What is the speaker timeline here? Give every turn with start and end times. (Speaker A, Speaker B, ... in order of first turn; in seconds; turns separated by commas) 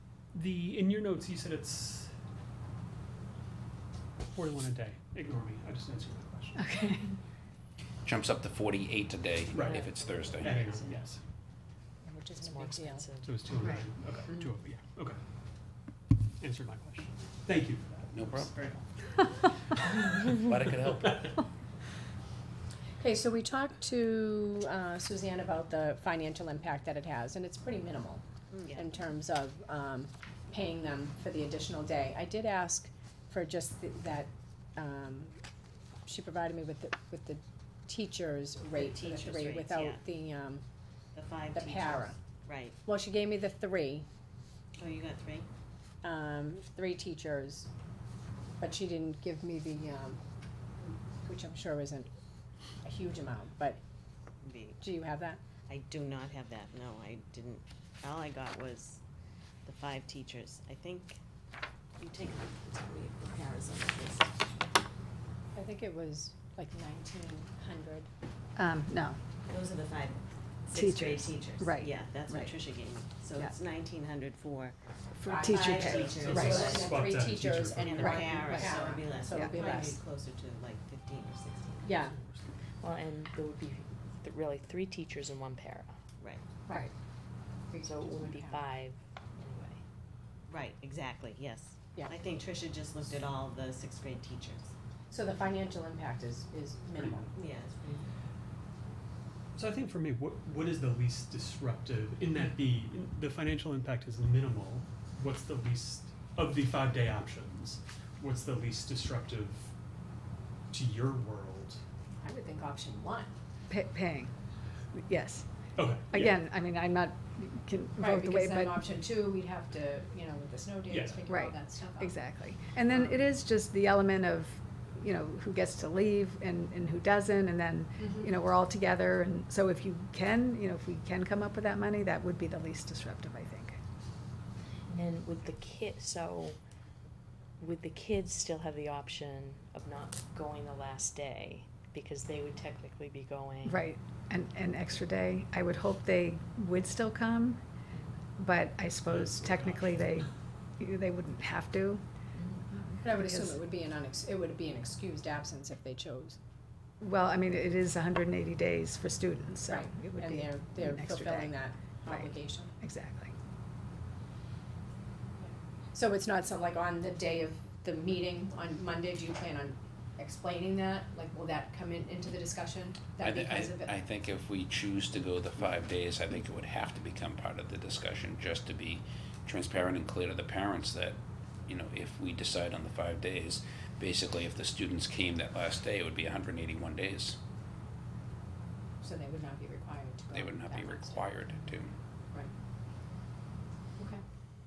Speaker A: 0.3-2.1, Speaker A: 4.2-6.6, Speaker B: 6.5-7.1, Speaker C: 8.0-10.9, Speaker A: 9.5-11.2, Speaker D: 9.6-10.5, Speaker E: 10.6-10.9, Speaker E: 12.0-13.1, Speaker D: 12.4-13.3, Speaker A: 13.2-15.2, Speaker A: 16.4-18.8, Speaker C: 18.1-18.7, Speaker C: 20.2-21.4, Speaker E: 23.0-35.3, Speaker F: 28.5-28.9, Speaker E: 36.0-40.6, Speaker F: 38.7-40.0, Speaker F: 41.1-42.8, Speaker E: 41.5-42.2, Speaker E: 42.8-44.0, Speaker F: 44.8-45.5, Speaker E: 46.0-47.7, Speaker E: 48.6-50.2, Speaker E: 51.2-52.1, Speaker E: 52.8-53.8, Speaker F: 54.4-54.8, Speaker E: 54.8-55.4, Speaker F: 55.7-59.0, Speaker F: 59.6-61.2, Speaker F: 62.0-64.7, Speaker E: 65.5-68.1, Speaker B: 68.5-69.2, Speaker F: 69.5-74.7, Speaker B: 70.7-72.5, Speaker B: 75.2-76.8, Speaker E: 75.2-80.0, Speaker F: 75.4-77.0, Speaker A: 76.0-78.3, Speaker F: 77.8-82.0, Speaker B: 78.2-79.7, Speaker E: 81.8-82.2, Speaker A: 82.1-82.4, Speaker D: 82.8-85.9, Speaker E: 87.7-88.6, Speaker D: 87.8-89.8, Speaker F: 90.5-94.7, Speaker E: 95.1-97.3, Speaker F: 97.3-98.1, Speaker A: 99.5-109.7, Speaker A: 110.7-111.8, Speaker E: 112.2-113.3, Speaker B: 113.7-114.3, Speaker B: 114.9-115.5, Speaker A: 115.7-116.4, Speaker B: 116.1-118.8, Speaker E: 118.0-122.2, Speaker A: 120.9-121.3, Speaker B: 121.3-133.8, Speaker E: 122.9-123.2, Speaker E: 128.0-128.3, Speaker D: 134.9-136.6, Speaker D: 137.6-143.8, Speaker B: 143.6-147.6, Speaker B: 148.4-152.0, Speaker A: 149.1-150.0, Speaker D: 152.3-152.6, Speaker B: 152.7-153.6, Speaker E: 153.0-156.4, Speaker B: 157.0-161.5, Speaker E: 159.7-162.8, Speaker B: 162.1-163.3, Speaker E: 165.4-173.9, Speaker C: 173.2-187.4, Speaker E: 189.0-191.6, Speaker C: 190.3-191.9